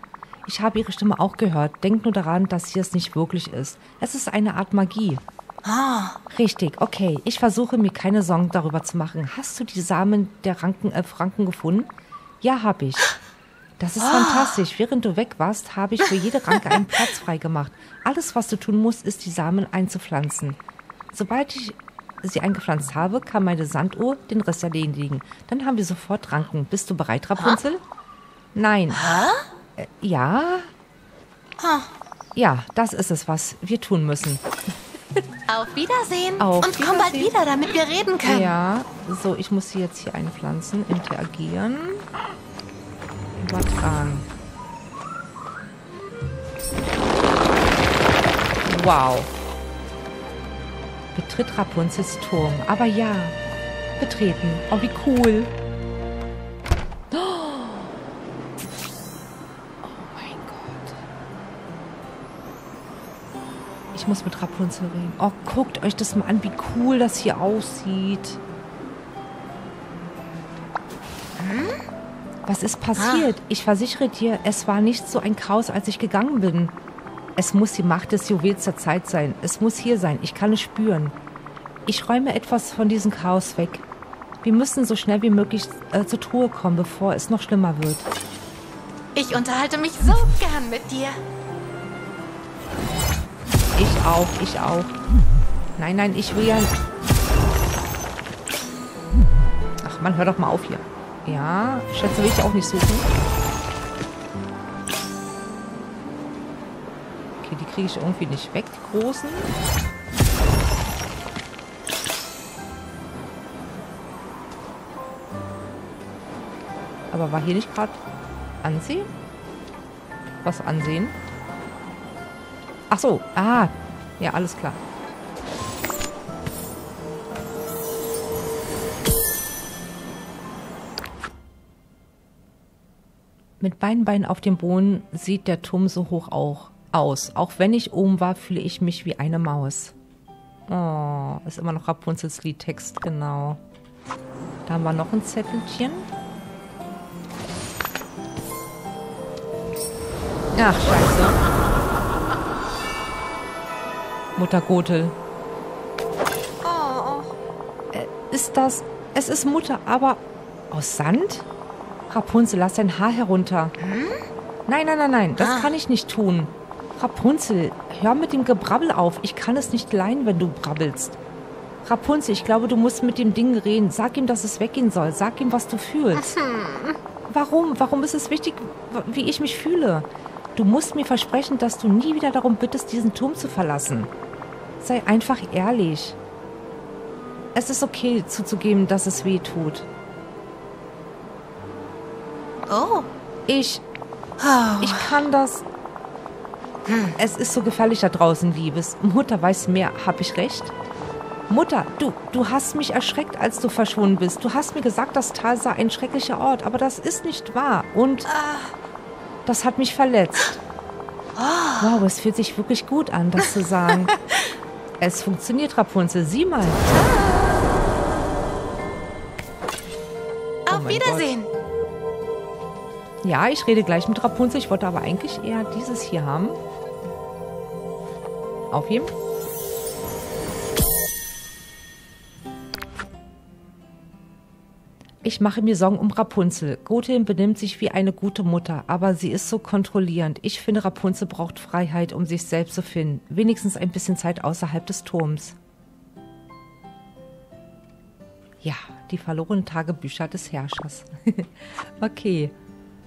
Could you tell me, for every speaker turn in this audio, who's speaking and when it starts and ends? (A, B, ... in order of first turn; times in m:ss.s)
0:00.4-0:05.2 A
0:05.6-0:06.2 B
0:06.3-0:11.9 A
0:12.4-0:13.1 A
0:13.8-0:20.6 A
0:14.0-0:14.6 B
0:21.1-0:27.8 A
0:28.5-0:29.1 A
0:28.9-0:29.4 B
0:29.8-0:30.7 A
0:31.6-0:31.9 B
0:32.3-0:34.4 A
0:35.5-0:38.5 B
0:36.4-0:37.3 A
0:38.2-0:42.0 A
0:43.4-0:44.3 A
0:48.6-0:49.3 A
0:51.1-0:53.4 A
0:54.0-0:55.5 A
0:57.1-0:58.0 A
0:59.8-1:01.0 A
1:03.9-1:08.4 A
1:11.4-1:11.8 B
1:12.4-1:16.7 A
1:13.0-1:13.3 B
1:17.4-1:21.1 A
1:21.9-1:23.8 A
1:24.4-1:28.1 A
1:29.1-1:31.2 B
1:33.8-1:34.9 A
1:35.8-1:36.7 A
1:39.8-1:43.1 A
1:47.4-1:49.5 A
1:57.1-1:58.0 A
1:58.6-1:59.1 A
2:00.4-2:01.2 A
2:02.9-2:04.8 A
2:13.6-2:19.9 A
2:20.7-2:23.6 A
2:24.7-2:26.1 A
2:30.5-2:31.4 A
2:34.4-2:35.2 A
2:36.6-2:37.3 B
2:37.9-2:41.4 A
2:42.1-2:43.7 A
2:43.8-2:44.3 B
2:44.7-2:51.2 A
2:45.4-2:45.7 B
2:51.8-2:56.4 A
2:56.2-2:57.0 B
2:57.3-3:04.1 A
3:04.8-3:06.2 A
3:07.5-3:09.9 A
3:12.7-3:13.1 B
3:13.5-3:13.8 A
3:14.4-3:15.2 B
3:14.8-3:15.6 A
3:16.8-3:17.2 B
3:17.2-3:20.7 A
3:21.5-3:28.3 A
3:28.3-3:28.7 B
3:29.4-3:30.6 A
3:31.3-3:31.9 B
3:31.8-3:34.2 A
3:35.0-3:37.2 A
3:37.0-3:37.5 B
3:40.7-3:41.5 B
3:40.7-3:41.3 A
3:43.2-3:46.6 A
3:48.7-3:49.1 A
3:55.2-4:05.6 A
4:08.6-4:12.5 A